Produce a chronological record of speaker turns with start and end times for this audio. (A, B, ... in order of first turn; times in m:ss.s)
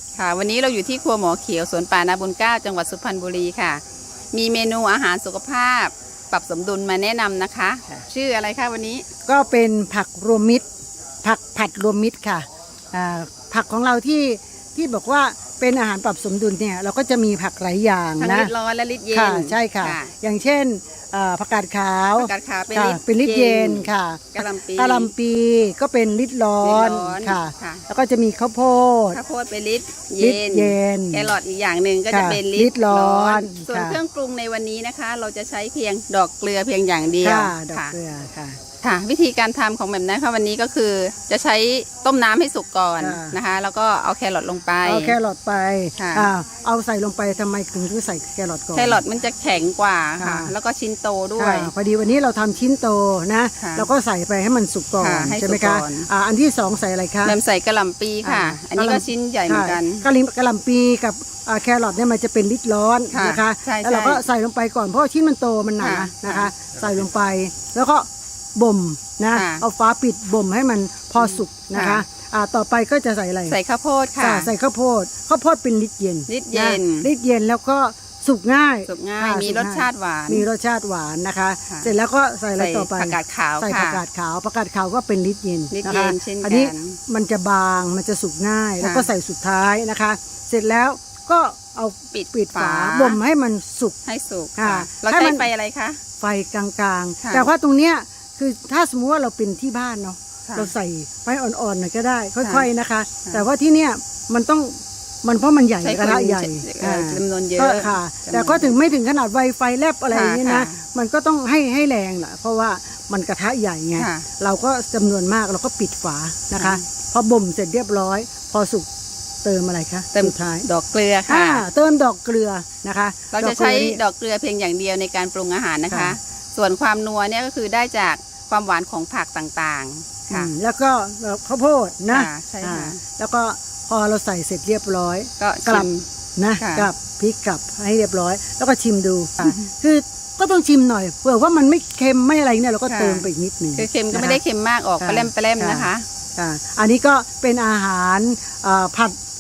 0:00.2-0:03.8 A
0:04.3-0:09.0 A
0:09.3-0:10.7 B
0:11.2-0:18.5 B
0:18.2-0:20.1 A
0:19.1-0:29.2 B
0:22.2-0:25.1 A
0:26.6-0:27.8 A
0:29.1-0:37.9 A
0:30.2-0:31.3 B
0:32.1-0:34.0 B
0:37.2-0:38.6 B
0:38.8-0:45.2 A
0:43.0-0:43.4 B
0:44.8-0:49.0 B
0:46.0-0:46.3 A
0:48.8-0:51.7 A
0:50.2-0:50.5 B
0:51.4-0:57.4 B
0:53.6-0:53.9 A
0:55.0-0:56.1 A
0:57.2-1:00.0 A
0:58.2-1:13.6 B
1:03.1-1:04.2 A
1:05.8-1:06.5 A
1:09.3-1:09.6 A
1:11.2-1:12.0 A
1:13.5-1:14.5 A
1:14.2-1:34.0 B
1:16.3-1:17.1 A
1:18.8-1:20.5 A
1:22.6-1:24.0 A
1:25.7-1:27.0 A
1:28.8-1:29.1 A
1:32.1-1:33.2 A
1:34.0-1:36.0 A
1:34.6-1:35.5 B
1:36.2-1:58.9 B
1:37.2-1:37.5 A
1:40.5-1:40.7 A
1:45.8-1:48.8 A
1:50.1-1:50.8 A
1:54.0-1:54.2 A
1:56.6-1:56.8 A
1:59.4-2:00.7 B
2:00.1-2:01.7 A
2:01.3-2:04.0 B
2:03.3-2:10.5 A
2:05.9-2:06.2 B
2:10.3-2:24.4 B
2:12.1-2:13.0 A
2:15.4-2:16.1 A
2:16.6-2:16.9 A
2:19.4-2:19.7 A
2:22.9-2:26.0 A
2:25.0-2:29.2 B